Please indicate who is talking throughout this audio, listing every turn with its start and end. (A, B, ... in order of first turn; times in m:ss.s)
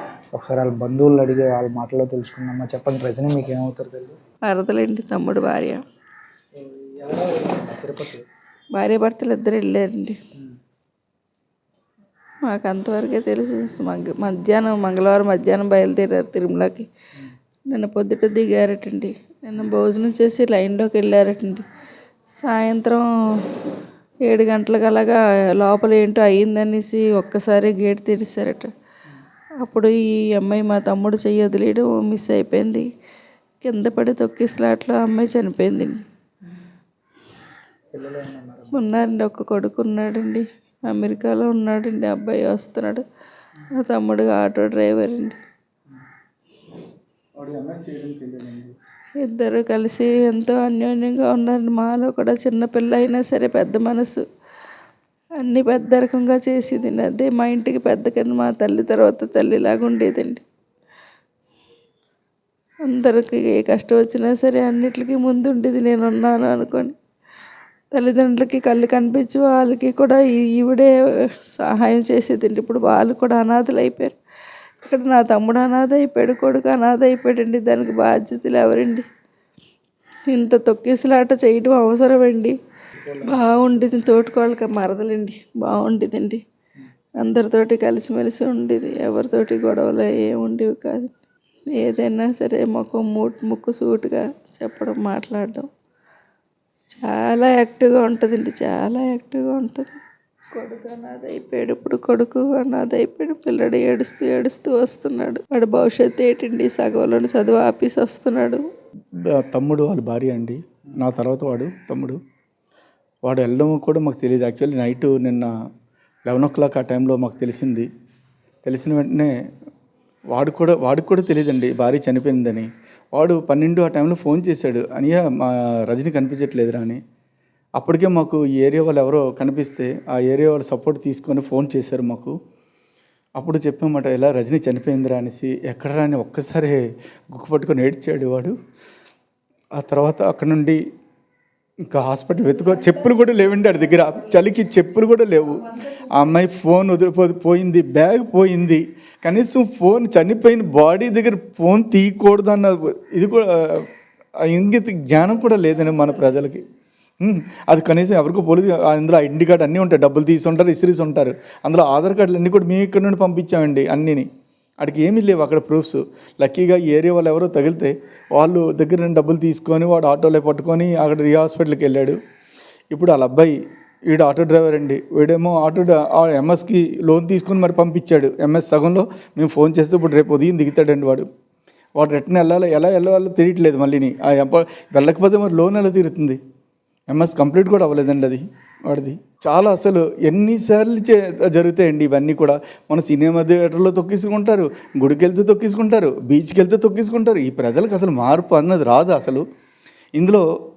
0:00.3-0:04.2 A
0:04.5-0:05.8 B
0:06.5-0:08.2 A
0:08.8-0:10.2 B
0:12.5-0:16.9 B
0:17.7-0:21.6 B
0:22.4-0:23.5 B
0:24.3-0:28.7 B
0:29.6-0:32.8 B
0:33.6-0:36.0 B
0:37.9-0:38.7 A
0:38.7-0:43.0 B
0:43.8-0:45.4 B
0:47.4-0:48.5 C
0:49.2-0:54.2 B
0:55.4-1:00.4 B
1:02.9-1:06.9 B
1:07.9-1:10.9 B
1:11.5-1:14.2 B
1:14.9-1:19.0 B
1:20.3-1:22.5 B
1:23.0-1:23.9 A
1:23.3-1:26.4 B
1:27.2-1:31.1 B
1:31.8-1:35.7 B
1:37.0-1:40.0 B
1:40.5-1:48.6 B
1:49.4-1:52.2 C
1:53.2-1:55.5 C
1:56.2-1:57.9 C
1:58.6-1:59.3 C
2:00.3-2:07.0 C
2:07.8-2:12.3 C
2:13.4-2:18.6 C
2:19.8-2:20.8 C
2:21.9-2:33.9 C
2:34.5-2:36.6 C
2:37.2-2:44.3 C
2:44.8-2:52.2 C
2:52.9-2:53.5 C
2:54.1-3:01.3 C
3:02.0-3:06.4 C
3:07.1-3:19.4 C
3:20.2-3:20.4 C